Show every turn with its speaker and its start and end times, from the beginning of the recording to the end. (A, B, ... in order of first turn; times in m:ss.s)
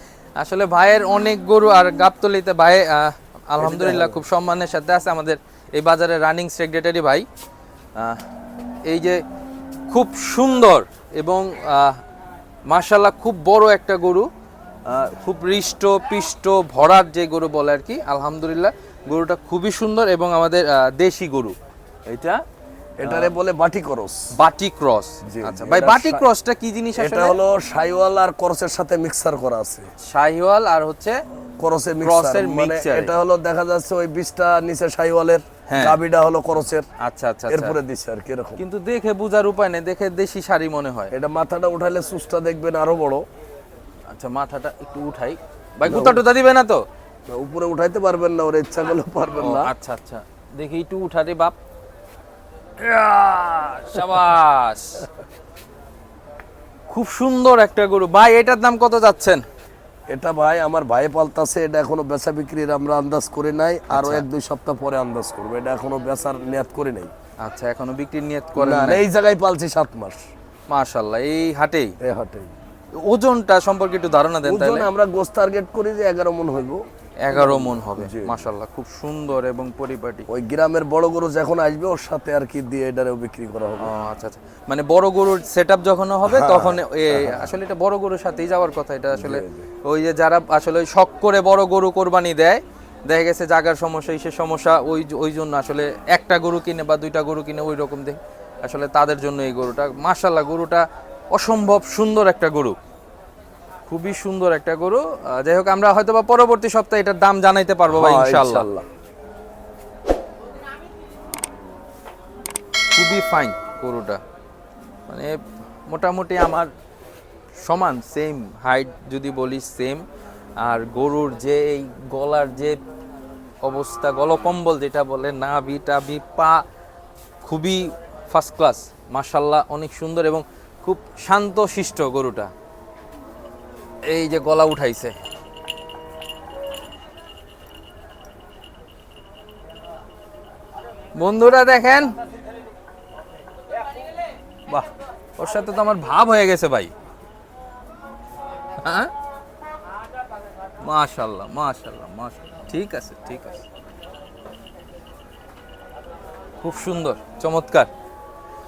0:00.4-0:07.2 A
0:03.6-0:04.2 B
0:08.0-0:08.2 A
0:08.8-0:09.2 A
0:09.9-0:12.0 A
0:12.7-0:14.3 A
0:14.8-0:21.6 A
0:22.1-0:22.4 A
0:23.0-0:24.3 B
0:23.0-0:23.3 A
0:24.3-0:27.3 A
0:25.3-0:26.3 B
0:27.0-0:29.8 B
0:30.0-0:31.2 A
0:31.6-0:36.8 B
0:32.0-0:33.1 A
0:35.7-0:36.0 A
0:37.0-0:37.8 A
0:37.5-0:38.6 B
0:38.6-0:41.1 A
0:41.1-0:43.2 B
0:44.1-0:46.8 A
0:45.8-0:46.2 B
0:47.3-0:49.7 B
0:49.4-0:51.5 A
0:52.8-0:55.0 A
0:56.9-0:59.4 A
1:00.1-1:07.1 B
1:03.9-1:04.2 A
1:07.4-1:09.0 A
1:08.6-1:10.2 B
1:10.7-1:11.9 A
1:12.0-1:12.5 B
1:13.0-1:14.9 A
1:14.4-1:18.5 B
1:17.2-1:20.3 A
1:20.3-1:23.9 B
1:23.8-1:42.8 A
1:26.2-1:27.5 B
1:29.1-1:29.7 B
1:43.9-1:48.7 A
1:47.9-1:48.8 B
1:52.9-1:54.2 A
1:55.1-1:56.7 A
1:57.6-2:00.0 A
2:00.6-2:02.8 A
2:03.6-2:06.6 A
2:07.4-2:12.5 A
2:14.1-2:15.2 A
2:21.2-2:22.1 A
2:24.7-2:26.9 A
2:28.8-2:29.1 A
2:30.8-2:33.6 A
2:36.6-2:37.9 A